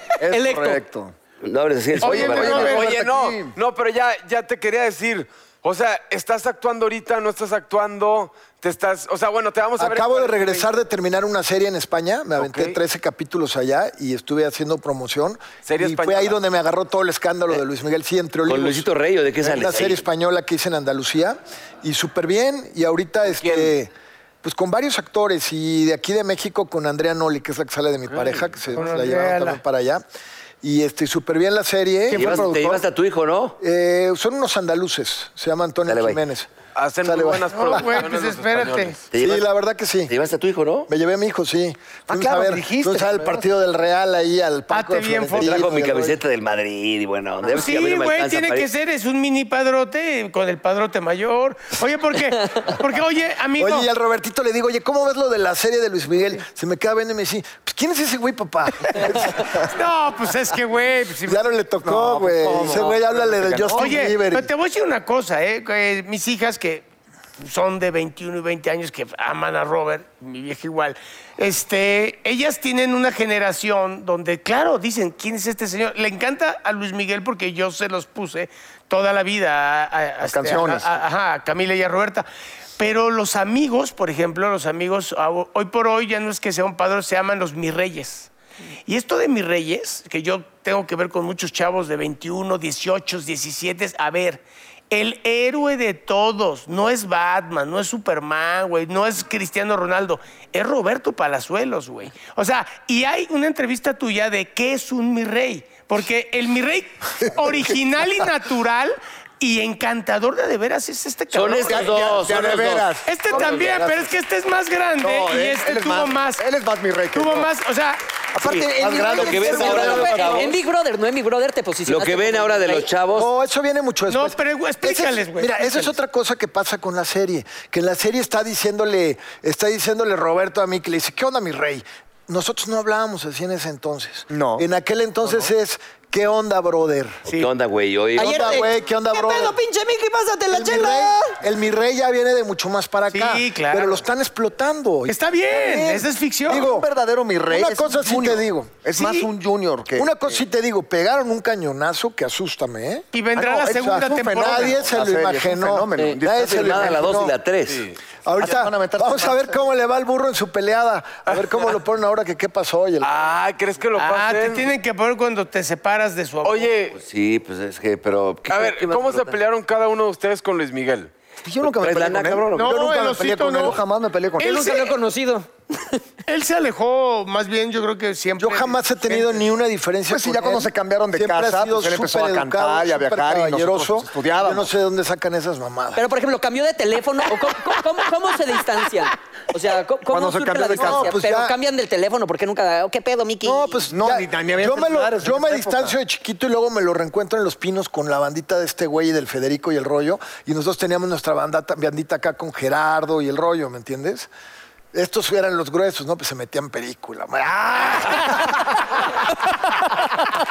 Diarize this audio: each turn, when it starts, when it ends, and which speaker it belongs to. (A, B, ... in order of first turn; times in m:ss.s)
0:00.2-0:01.1 A
0:00.3-0:00.8 B
0:01.4-0:02.8 C
0:02.0-0:03.0 D
0:02.0-0:03.6 A
0:02.6-0:10.7 E
0:09.8-0:18.9 F
0:12.4-0:12.8 E
0:15.6-0:16.4 E
0:18.5-0:20.0 C
0:19.4-0:23.9 F
0:23.3-0:23.7 E
0:24.4-0:30.0 F
0:28.1-0:28.4 E
0:28.7-0:29.6 D
0:30.6-0:32.6 F
0:32.1-0:32.6 D
0:32.1-0:33.6 C
0:33.6-0:36.5 F
0:35.9-0:36.2 C
0:36.8-0:39.0 E
0:37.0-0:38.0 F
0:37.5-0:39.1 D
0:39.1-0:39.5 C
0:39.2-0:40.1 F
0:40.1-0:40.9 C
0:40.9-0:46.2 F
0:42.1-0:43.5 A
0:44.7-0:45.6 D
0:45.4-0:48.7 C
0:47.5-0:53.9 D
0:53.6-0:59.7 F
0:59.6-1:01.5 D
1:01.3-1:04.5 F
1:01.8-1:04.1 A
1:02.5-1:02.8 B
1:03.7-1:06.9 D
1:07.4-1:22.3 D
1:20.2-1:20.9 A
1:22.8-1:28.3 D
1:28.9-1:52.0 D
1:51.3-1:54.0 C
1:51.7-1:53.8 A
1:53.0-1:56.4 D
1:55.0-1:57.5 A
1:57.1-1:58.0 D
1:58.3-2:00.5 A
1:58.8-2:00.5 F
1:59.0-2:02.9 B
1:59.1-2:00.6 C
2:01.9-2:03.3 C
2:03.2-2:17.2 F
2:04.1-2:06.0 D
2:14.3-2:14.7 A
2:17.3-2:18.7 C
2:18.2-2:21.4 B
2:18.2-2:19.6 F
2:20.5-2:26.9 F
2:23.1-2:24.0 D
2:25.1-2:26.7 D
2:26.5-2:30.4 A
2:27.5-2:28.8 F
2:30.0-2:37.3 F
2:33.1-2:34.8 D
2:33.4-2:37.2 A
2:36.3-2:37.9 C
2:37.7-2:38.0 E
2:38.2-2:43.1 F
2:38.4-2:39.6 A
2:41.3-2:41.6 E
2:43.0-2:44.7 E
2:44.0-2:46.7 D
2:46.4-2:47.0 E
2:47.0-2:49.4 C
2:48.5-2:51.1 E
2:51.4-2:54.8 A
2:51.8-2:52.8 C
2:52.5-2:53.8 D
2:54.4-2:56.0 B
2:54.5-2:54.9 D
2:56.3-2:59.4 D
2:58.4-3:06.0 F
3:00.1-3:04.7 A
3:06.0-3:13.8 B
3:10.1-3:11.2 A
3:10.7-3:11.6 F
3:13.4-3:24.3 F
3:13.9-3:16.0 A
3:24.9-3:28.9 F